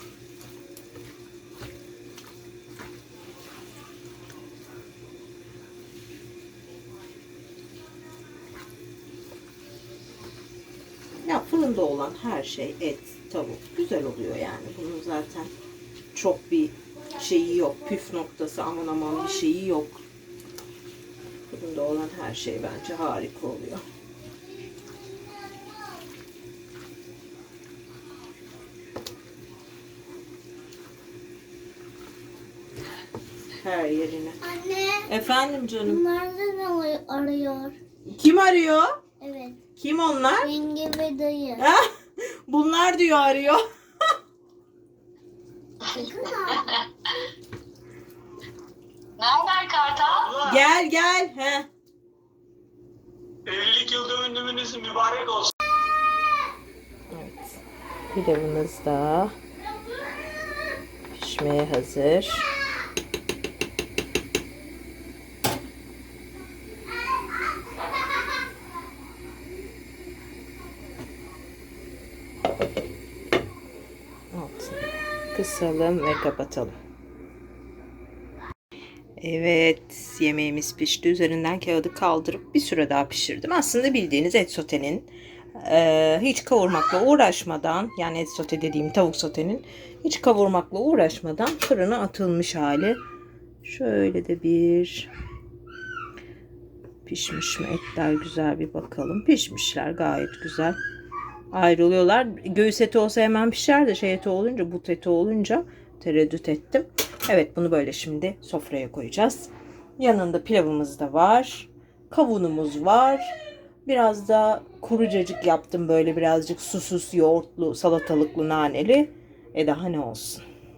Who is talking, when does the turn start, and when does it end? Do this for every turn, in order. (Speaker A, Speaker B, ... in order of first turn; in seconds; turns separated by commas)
Speaker A: 11.2-15.5, Speaker A: 16.1-20.0, Speaker A: 21.5-23.8, Speaker A: 33.6-34.4, Speaker B: 34.4-35.1, Speaker A: 35.1-36.0, Speaker B: 35.9-37.8, Speaker A: 38.1-38.9, Speaker B: 39.2-39.6, Speaker A: 39.8-40.5, Speaker B: 40.4-41.6, Speaker A: 41.6-43.6, Speaker B: 45.9-46.7, Speaker C: 46.5-46.8, Speaker C: 49.2-50.5, Speaker A: 50.4-51.7, Speaker C: 53.5-55.5, Speaker A: 57.1-57.6, Speaker A: 58.1-59.3, Speaker A: 61.1-62.5, Speaker A: 74.3-76.7, Speaker A: 79.2-93.0, Speaker A: 93.6-95.1, Speaker A: 97.0-100.8, Speaker A: 101.5-113.3, Speaker A: 113.8-120.4